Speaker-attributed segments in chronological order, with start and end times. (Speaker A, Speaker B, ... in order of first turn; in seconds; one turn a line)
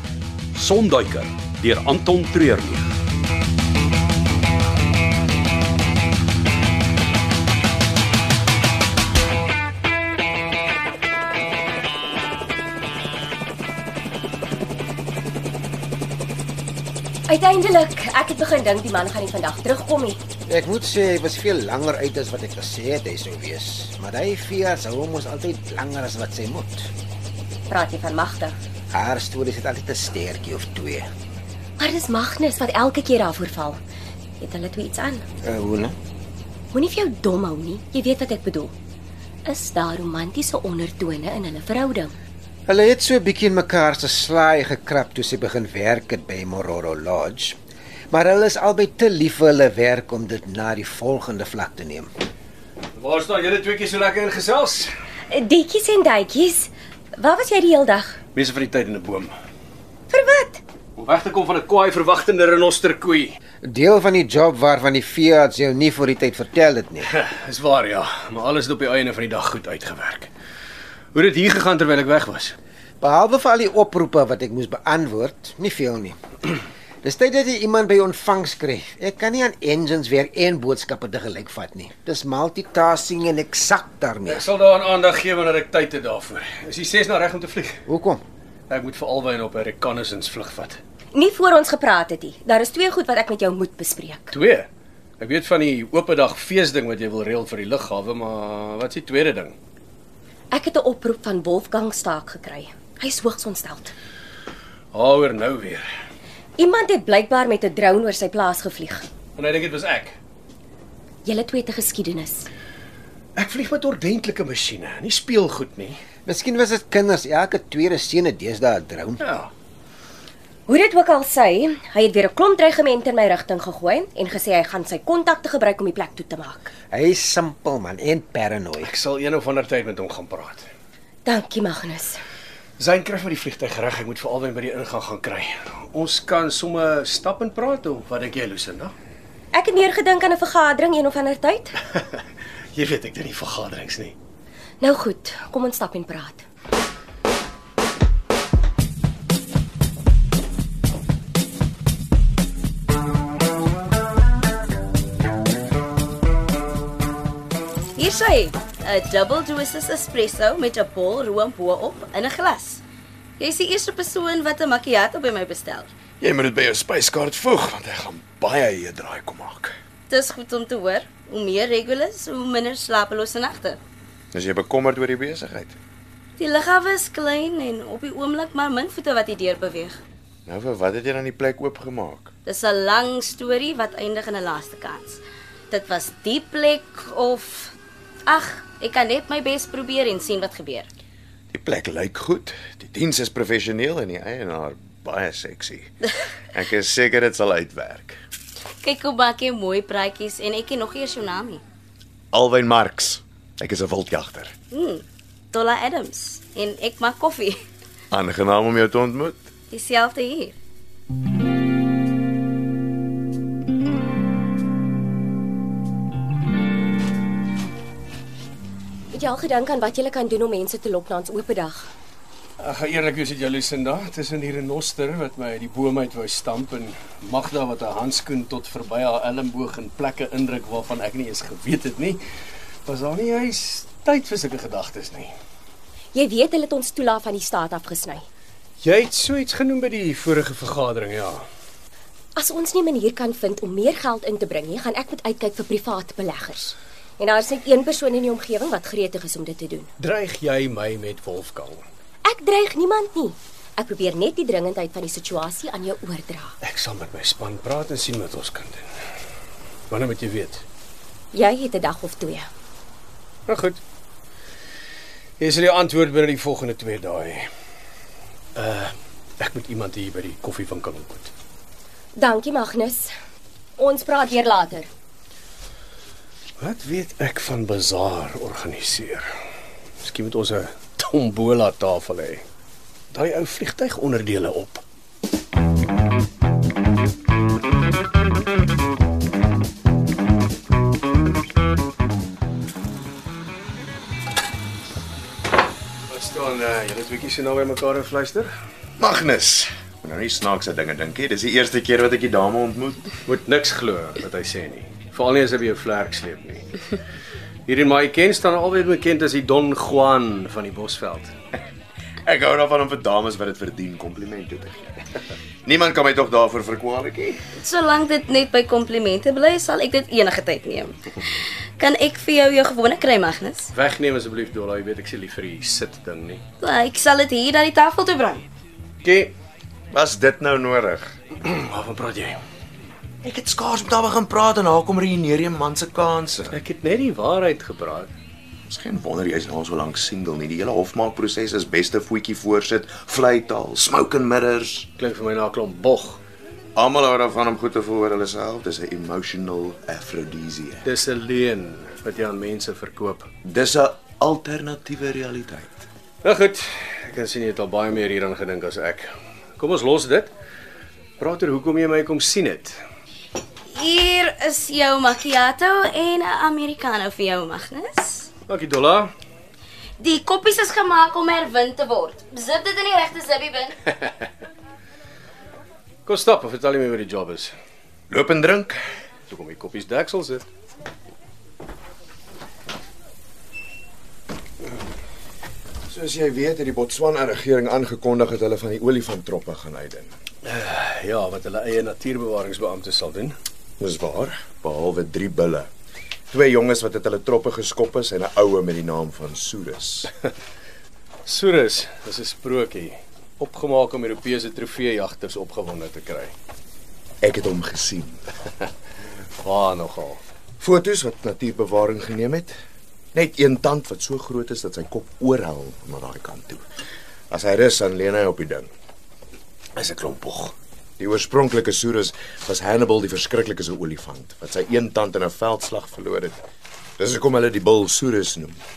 Speaker A: 0.5-2.9
Speaker B: 17.3-20.2
Speaker C: 20.5-26.9
Speaker B: 27.7-28.5
Speaker C: 28.9-31.1
Speaker B: 31.8-33.8
Speaker B: 34.4-35.2
Speaker C: 35.4-36.0
Speaker B: 36.7-38.7
Speaker B: 39.5-42.1
Speaker C: 42.7-47.6
Speaker C: 48.1-52.1
Speaker D: 53.0-54.9
Speaker B: 55.3-58.2
Speaker D: 58.3-59.3
Speaker B: 60.1-60.6
Speaker D: 61.0-63.4
Speaker C: 63.6-67.1
Speaker D: 67.0-70.3
Speaker D: 71.1-72.6
Speaker C: 73.0-76.2
Speaker C: 77.0-84.5
Speaker D: 84.3-87.8
Speaker C: 87.9-88.2
Speaker D: 88.7-90.8
Speaker B: 91.1-94.3
Speaker D: 94.3-94.7
Speaker D: 95.2-99.5
Speaker B: 100.5-103.9
Speaker D: 104.9-105.8
Speaker B: 106.6-109.0
Speaker D: 109.4-110.2
Speaker B: 111.2-112.5
Speaker D: 113.4-116.0
Speaker C: 116.3-119.2
Speaker D: 119.2-119.5
Speaker B: 120.7-126.7
Speaker C: 126.9-128.9
Speaker D: 128.8-130.6
Speaker B: 131.2-132.2
Speaker D: 132.8-138.9
Speaker B: 139.5-141.8
Speaker D: 142.8-144.1
Speaker B: 144.8-146.4
Speaker E: 158.0-162.8
Speaker E: 163.4-165.9
Speaker F: 166.2-169.7
Speaker E: 170.1-173.8
Speaker F: 174.3-175.8
Speaker E: 176.4-180.0
Speaker F: 180.4-182.3
Speaker E: 182.4-187.8
Speaker E: 188.3-190.9
Speaker F: 191.5-195.9
Speaker F: 196.5-198.2
Speaker E: 198.8-201.6
Speaker F: 202.3-204.5
Speaker E: 204.7-207.6
Speaker F: 208.1-209.5
Speaker E: 209.7-210.5
Speaker B: 219.1-221.9
Speaker D: 222.6-232.2
Speaker D: 232.8-235.3
Speaker B: 236.1-238.2
Speaker D: 238.8-241.4
Speaker B: 242.3-249.9
Speaker D: 250.0-251.8
Speaker B: 252.2-256.5
Speaker D: 256.6-258.8
Speaker D: 259.9-260.6
Speaker B: 261.3-262.5
Speaker D: 263.5-263.8
Speaker D: 265.4-267.5
Speaker D: 268.6-271.3
Speaker B: 272.1-273.1
Speaker B: 273.8-274.9
Speaker D: 276.6-279.3
Speaker D: 280.0-282.4
Speaker D: 283.1-284.8
Speaker D: 296.1-298.5
Speaker F: 299.0-303.2
Speaker D: 303.3-306.7
Speaker D: 307.7-311.3
Speaker F: 312.2-315.0
Speaker F: 315.6-317.4
Speaker E: 317.6-323.7
Speaker D: 323.8-326.4
Speaker E: 326.6-328.5
Speaker D: 329.0-329.3
Speaker F: 329.9-331.1
Speaker D: 331.4-332.4
Speaker F: 333.2-336.6
Speaker D: 336.5-338.1
Speaker F: 338.7-344.9
Speaker D: 345.0-346.2
Speaker F: 346.8-350.9
Speaker D: 350.8-353.3
Speaker F: 353.4-355.9
Speaker D: 356.2-360.3
Speaker D: 361.2-362.8
Speaker E: 363.7-368.3
Speaker D: 368.5-369.1
Speaker E: 370.0-373.8
Speaker D: 376.1-377.5
Speaker F: 378.1-378.8
Speaker D: 379.3-380.4
Speaker F: 385.9-390.1
Speaker D: 390.4-393.3
Speaker F: 393.8-395.7
Speaker F: 396.3-400.1
Speaker D: 401.2-406.3
Speaker F: 407.2-408.2
Speaker D: 409.4-410.2
Speaker F: 410.6-412.5
Speaker F: 413.1-416.6
Speaker F: 417.3-418.7
Speaker D: 419.8-420.5
Speaker F: 421.0-426.4
Speaker F: 427.0-428.6